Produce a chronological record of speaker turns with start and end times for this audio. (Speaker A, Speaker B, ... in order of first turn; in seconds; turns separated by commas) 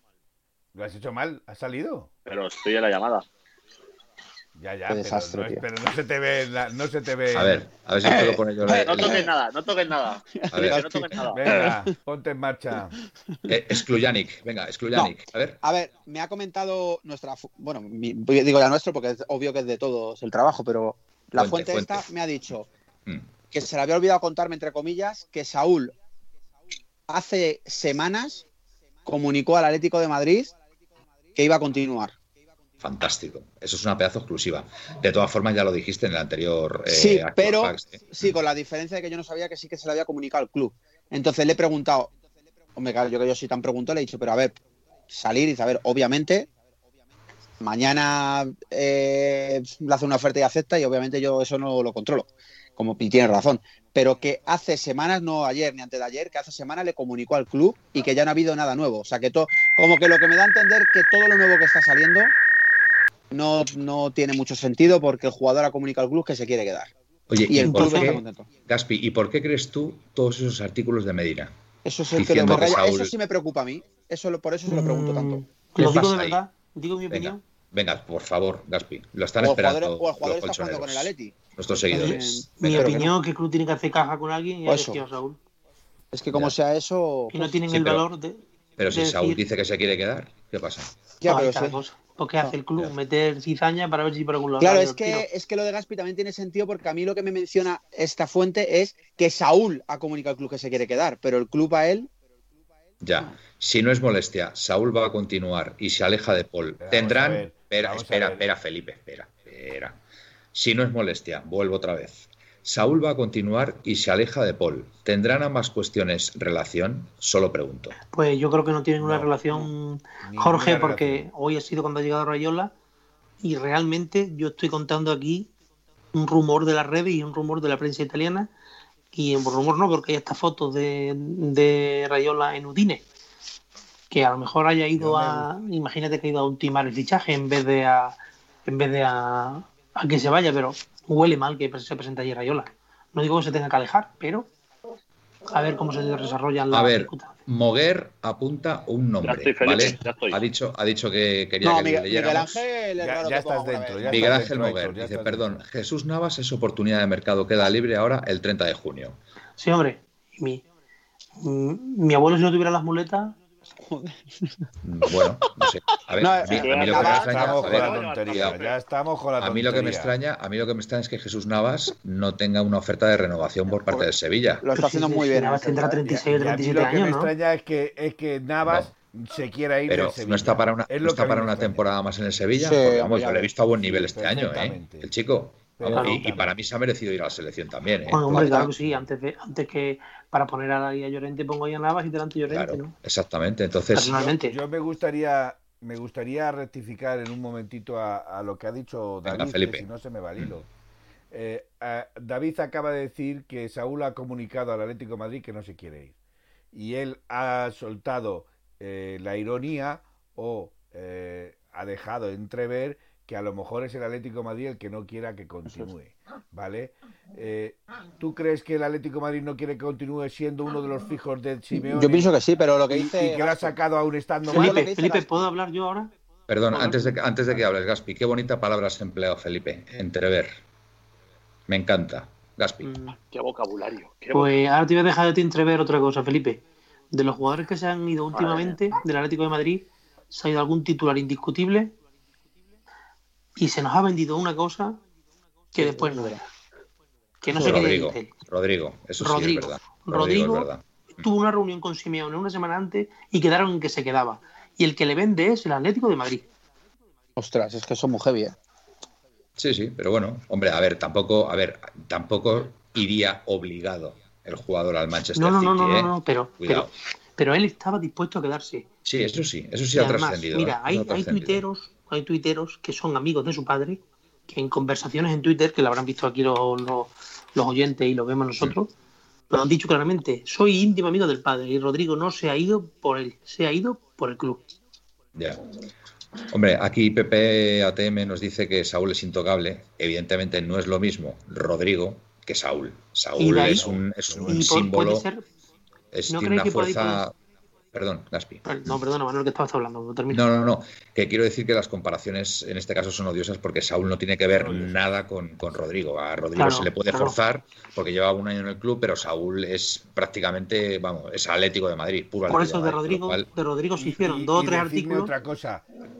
Speaker A: 0.7-2.1, Speaker B: 2.3-3.3, Speaker A: 4.6-7.7, Speaker C: 4.9-5.6, Speaker D: 7.3-9.3, Speaker C: 8.0-9.3, Speaker B: 8.8-11.7, Speaker C: 10.3-11.8, Speaker D: 10.5-11.2, Speaker A: 11.3-13.0, Speaker D: 13.5-15.6, Speaker C: 14.9-22.7, Speaker D: 21.4-22.0, Speaker C: 23.5-25.9, Speaker C: 27.1-28.4, Speaker C: 29.1-30.5, Speaker C: 31.4-32.1, Speaker D: 32.8-38.4, Speaker C: 36.9-42.1, Speaker C: 42.8-44.6, Speaker C: 45.1-46.5, Speaker C: 47.6-62.3, Speaker C: 63.3-66.9, Speaker D: 67.3-71.5, Speaker C: 67.4-68.5, Speaker E: 67.7-68.2, Speaker C: 71.8-75.4, Speaker D: 72.2-73.1, Speaker E: 74.7-77.4, Speaker D: 75.8-76.4, Speaker D: 77.1-83.1, Speaker C: 79.4-81.4, Speaker C: 81.9-83.1, Speaker E: 81.9-85.4, Speaker C: 84.7-85.0, Speaker C: 86.1-87.6, Speaker E: 87.3-89.4, Speaker D: 87.7-88.1, Speaker D: 88.8-90.9, Speaker C: 91.2-91.8, Speaker E: 91.2-95.3, Speaker C: 94.6-102.1, Speaker D: 103.0-110.0, Speaker A: 106.8-108.5, Speaker D: 110.5-118.0, Speaker E: 118.1-122.7, Speaker A: 119.0-119.7, Speaker A: 120.2-121.3, Speaker E: 123.4-125.5, Speaker E: 126.1-128.5, Speaker E: 129.1-133.1, Speaker E: 134.1-144.5, Speaker A: 135.0-135.5, Speaker E: 145.5-147.4, Speaker D: 146.7-152.6, Speaker B: 149.2-150.4, Speaker C: 151.6-154.5, Speaker A: 153.0-155.6, Speaker D: 154.1-159.2, Speaker E: 159.6-160.6, Speaker E: 161.4-163.4, Speaker C: 163.7-164.7, Speaker D: 164.8-168.6, Speaker C: 166.2-167.5, Speaker B: 166.4-168.8, Speaker A: 167.1-170.1, Speaker D: 169.4-174.6, Speaker C: 173.7-174.1, Speaker C: 174.6-176.3, Speaker E: 174.8-177.3, Speaker A: 176.3-181.8, Speaker D: 178.6-178.9, Speaker D: 179.9-189.0, Speaker C: 182.6-183.5, Speaker A: 183.8-185.1, Speaker A: 185.8-186.5, Speaker E: 185.9-186.4, Speaker E: 188.1-192.9, Speaker C: 188.3-188.7, Speaker D: 192.5-194.3, Speaker E: 193.9-194.6, Speaker A: 194.4-200.7, Speaker D: 199.3-200.5, Speaker A: 201.3-206.2, Speaker A: 206.7-222.3, Speaker C: 221.7-223.8, Speaker A: 222.9-224.9, Speaker C: 224.5-225.5, Speaker E: 224.5-226.1, Speaker D: 226.5-230.6, Speaker E: 226.7-227.2, Speaker D: 231.7-232.9, Speaker E: 232.8-233.2, Speaker B: 233.3-234.6, Speaker E: 234.3-241.9, Speaker B: 238.3-238.8, Speaker E: 243.6-245.0, Speaker E: 245.7-246.4, Speaker C: 245.8-246.4, Speaker E: 247.4-248.3, Speaker C: 247.6-247.9, Speaker D: 247.6-251.3, Speaker E: 249.2-256.5, Speaker C: 257.4-258.6, Speaker D: 259.6-266.9, Speaker E: 265.4-268.9, Speaker D: 269.1-271.6, Speaker E: 269.9-278.9, Speaker E: 279.5-284.7, Speaker D: 285.4-285.6, Speaker D: 286.5-295.3, Speaker E: 293.4-295.4, Speaker A: 293.6-294.9, Speaker D: 296.1-297.4, Speaker E: 296.3-297.2, Speaker D: 297.9-298.9, Speaker E: 298.6-300.4, Speaker D: 300.3-313.5, Speaker A: 304.5-305.0, Speaker E: 306.6-307.4, Speaker E: 312.5-315.3, Speaker A: 314.0-315.9